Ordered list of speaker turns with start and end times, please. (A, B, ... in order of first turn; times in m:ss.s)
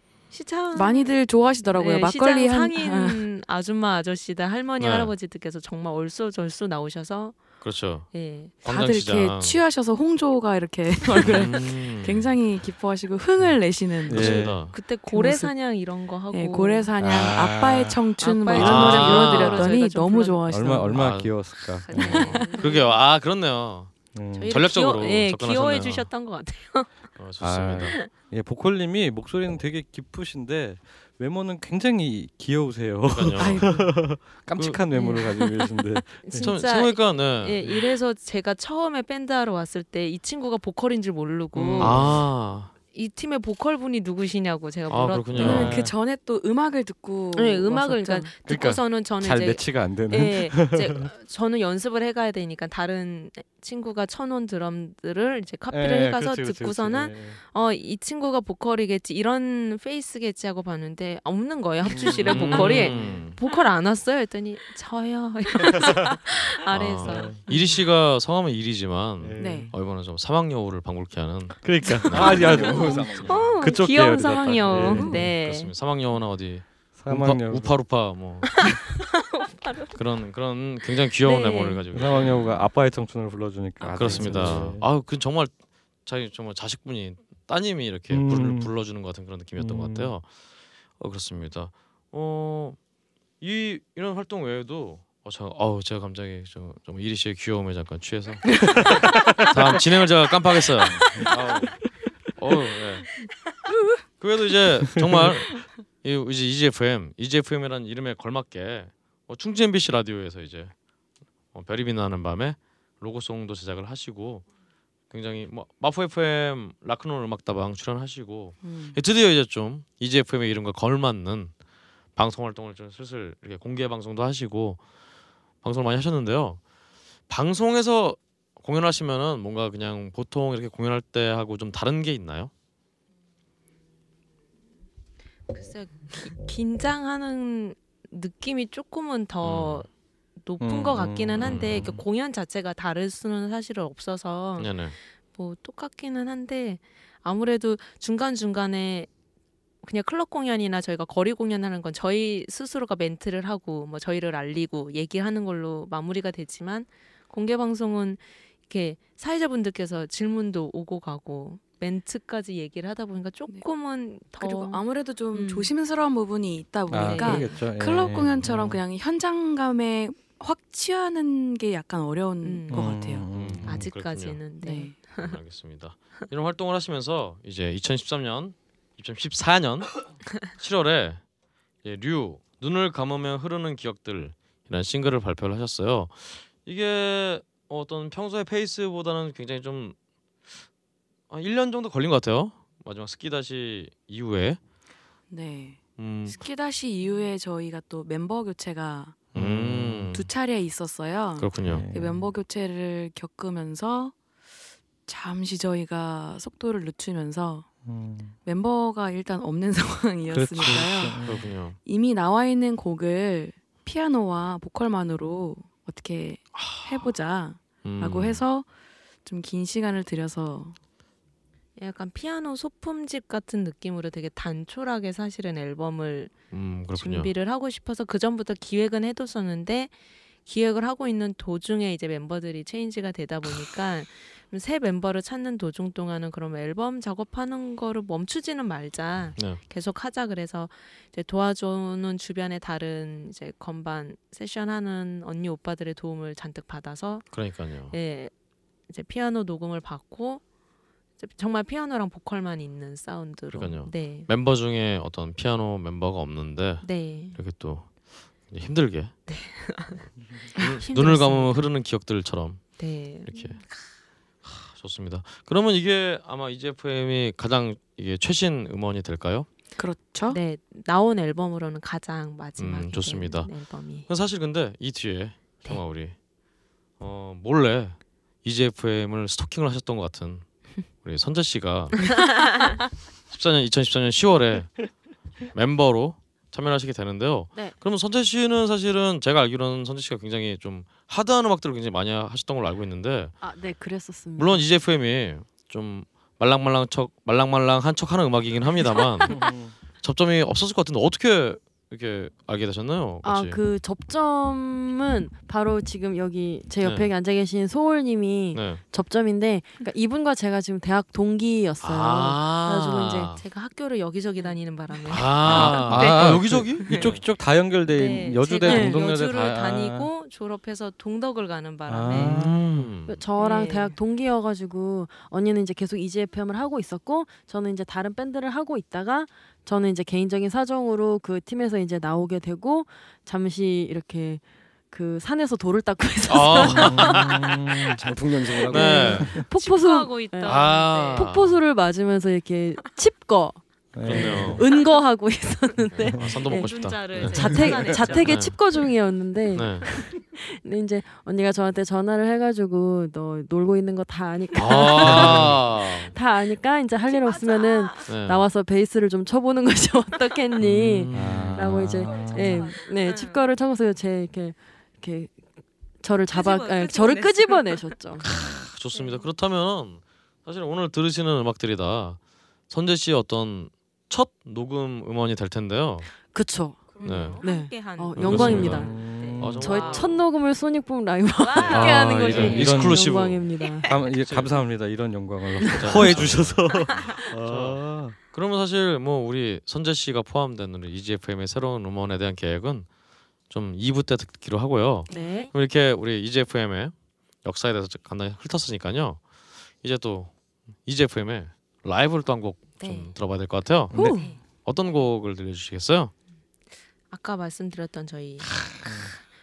0:00.3-0:01.2 A
0:00.7-0:03.2 B
0:01.7-0:08.6 A
0:04.8-0:05.1 C
0:07.6-0:09.6 C
0:08.6-0:15.5 B
0:11.2-0:12.3 C
0:14.1-0:14.6 D
0:14.1-0:14.8 C
0:14.7-0:16.9 A
0:16.3-0:21.1 B
0:17.0-0:18.0 D
0:18.2-0:20.4 A
0:18.5-0:19.7 C
0:20.5-0:22.5 D
0:20.9-0:24.0 C
0:21.8-0:23.0 A
0:24.1-0:24.6 D
0:24.3-0:27.0 A
0:24.5-0:26.1 C
0:27.2-0:28.0 C
0:27.4-0:36.5 D
0:27.8-0:28.1 A
0:33.1-0:33.8 C
0:33.4-0:33.9 B
0:34.6-0:34.8 C
0:34.9-0:42.2 A
0:36.4-0:37.8 C
0:41.6-0:42.2 D
0:41.8-0:42.7 C
0:42.9-0:45.7 A
0:44.9-0:45.7 C
0:45.4-0:48.3 B
0:45.4-0:46.0 D
0:47.4-1:07.8 A
0:48.4-0:51.0 D
0:55.7-0:57.4 D
1:01.8-1:03.3 D
1:02.2-1:03.4 C
1:06.7-1:12.8 C
1:07.0-1:07.4 D
1:09.2-1:09.7 D
1:09.4-1:09.7 B
1:11.6-1:15.2 D
1:12.1-1:13.5 E
1:12.8-1:15.7 A
1:14.7-1:18.5 C
1:17.0-1:17.9 D
1:18.6-1:20.0 A
1:19.9-1:22.7 C
1:21.2-1:21.8 A
1:21.9-1:24.9 D
1:23.8-1:30.3 C
1:23.9-1:24.7 A
1:28.1-1:28.7 D
1:29.6-1:30.1 D
1:31.0-1:32.8 C
1:33.4-1:43.2 C
1:44.2-1:50.7 C
1:45.0-1:45.3 D
1:51.5-1:54.5 C
1:55.1-2:01.5 C
1:58.6-1:59.0 B
2:02.2-2:04.8 C
2:05.6-2:06.6 C
2:07.3-2:12.5 C
2:15.5-2:19.9 A
2:19.4-2:19.9 C
2:20.4-2:29.1 A
2:20.6-2:22.0 D
2:21.4-2:21.8 C
2:24.6-2:25.0 C
2:29.8-2:45.7 A
2:44.4-2:53.3 B
2:46.9-2:48.8 D
2:47.0-2:47.5 A
2:52.4-2:53.0 A
2:52.7-2:53.9 D
2:53.3-2:54.4 C
2:53.6-2:55.4 A
2:54.6-2:55.0 B
2:55.1-3:01.2 C
3:01.8-3:10.0 C
3:11.3-3:14.6 C
3:15.3-3:19.2 B
3:16.0-3:16.4 C
3:19.3-3:20.1 D
3:19.3-3:20.3 C
3:20.1-3:24.2 B
3:21.4-3:21.9 C
3:21.6-3:22.3 D
3:25.1-3:27.7 B
3:27.8-3:28.3 D
3:28.4-3:38.7 B
3:30.3-3:31.5 D
3:30.6-3:31.8 C
3:36.5-3:37.1 C
3:37.8-3:38.4 C
3:39.2-3:40.8 B
3:41.8-3:46.4 A
3:46.5-3:47.3 C
3:46.9-3:49.9 A
3:50.4-4:08.3 A
4:07.3-4:07.9 C
4:08.9-4:10.4 A
4:11.2-4:14.3 A
4:13.5-4:19.2 C
4:16.8-4:17.4 A
4:19.3-4:21.7 A
4:20.6-4:23.6 C
4:22.8-4:23.9 A
4:24.4-4:29.5 C
4:29.8-4:30.4 B
4:30.3-4:34.1 A
4:32.6-4:36.2 C
4:37.0-4:42.1 C
4:42.3-4:42.7 A
4:43.3-4:45.0 C
4:45.5-4:53.4 C
4:53.4-4:54.6 F
4:54.4-5:03.6 C
4:59.3-4:59.7 D
5:03.2-5:13.3 F
5:06.8-5:07.1 C
5:08.5-5:08.8 C
5:11.8-5:13.4 C
5:13.4-5:17.2 A
5:15.1-5:17.2 C
5:15.4-5:20.1 D
5:17.9-5:22.4 A
5:18.6-5:19.0 F
5:21.9-5:22.9 D
5:22.1-5:23.2 C
5:23.1-5:37.5 F
5:23.4-5:24.0 A
5:36.3-5:37.5 C
5:36.7-5:37.9 D
5:38.0-5:39.4 E
5:38.7-6:05.4 F
5:38.7-5:39.4 C
5:39.5-5:41.3 A
5:40.4-5:41.6 C
5:43.9-5:44.6 D
5:44.0-5:44.6 C
5:46.1-5:46.3 D
5:46.2-5:48.6 C
5:46.5-5:48.4 A
5:49.5-5:49.9 C
5:54.6-5:56.1 C
5:54.7-5:55.0 A
5:55.0-5:55.6 D
5:57.1-5:58.1 A
5:58.1-5:58.4 C
6:00.6-6:01.7 C
6:01.1-6:02.8 D
6:02.0-6:03.4 A
6:06.0-6:08.2 F
6:06.3-6:08.0 A
6:08.2-6:16.1 C
6:08.9-6:09.3 A
6:16.2-6:23.9 F
6:16.9-6:20.2 A
6:17.0-6:17.4 C
6:18.2-6:20.2 C
6:18.3-6:19.6 D
6:21.4-6:22.7 A
6:21.6-6:24.7 C
6:21.7-6:23.2 D
6:23.9-6:28.2 D
6:25.6-6:26.2 F
6:25.7-6:32.9 C
6:33.5-6:39.2 C
6:35.1-6:35.5 A
6:35.1-6:35.5 F
6:39.8-6:46.1 C
6:42.8-6:43.1 A
6:43.9-6:44.4 F
6:44.0-6:44.4 A
6:47.1-6:48.8 A
6:48.8-6:49.1 D